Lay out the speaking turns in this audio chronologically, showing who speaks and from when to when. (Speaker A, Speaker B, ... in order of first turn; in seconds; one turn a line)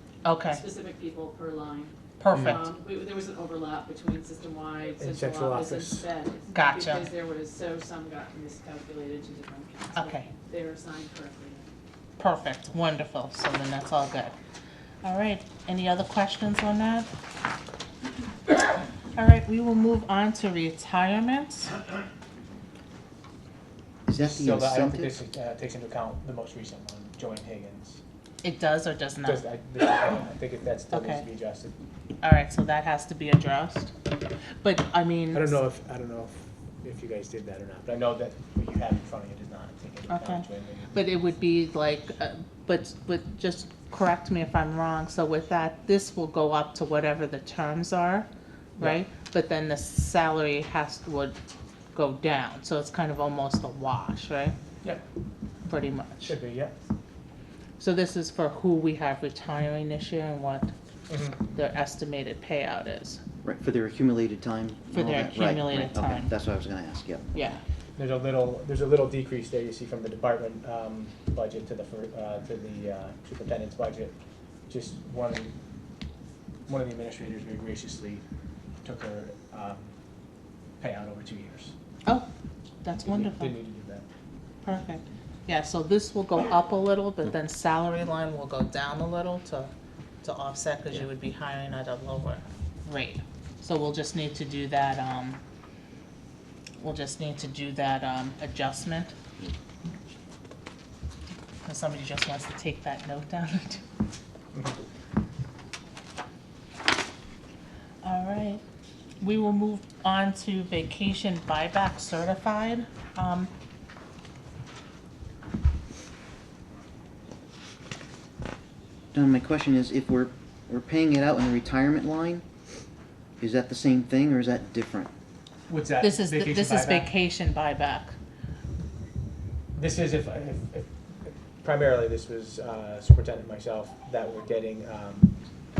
Speaker A: 0.2-0.6
Speaker B: 0.5-11.7
Speaker A: 2.2-2.6
Speaker C: 5.0-6.1
Speaker A: 6.5-7.1
Speaker A: 9.9-10.3
Speaker A: 12.2-14.3
Speaker A: 15.0-17.1
Speaker A: 19.1-21.7
Speaker D: 24.1-25.1
Speaker C: 24.2-28.0
Speaker A: 28.4-29.5
Speaker C: 29.2-31.7
Speaker A: 30.9-31.2
Speaker A: 32.2-33.9
Speaker A: 34.6-35.6
Speaker C: 35.3-41.1
Speaker A: 40.1-48.3
Speaker A: 48.8-51.3
Speaker A: 51.9-54.5
Speaker A: 55.7-56.4
Speaker C: 56.2-56.7
Speaker A: 57.8-60.7
Speaker C: 61.1-61.4
Speaker A: 61.5-63.2
Speaker D: 63.4-67.2
Speaker A: 64.9-66.3
Speaker A: 67.3-67.6
Speaker C: 68.0-74.1
Speaker C: 74.7-75.5
Speaker C: 76.7-78.2
Speaker C: 78.8-79.9
Speaker C: 80.8-81.7
Speaker A: 82.8-83.6
Speaker C: 83.0-84.0
Speaker A: 84.6-95.4
Speaker A: 96.8-99.1
Speaker A: 101.6-103.8
Speaker C: 104.5-104.8
Speaker A: 108.0-108.6
Speaker A: 109.2-113.5
Speaker D: 119.1-122.4
Speaker D: 123.4-125.1
Speaker C: 125.7-127.1
Speaker A: 126.0-128.2
Speaker C: 129.7-135.3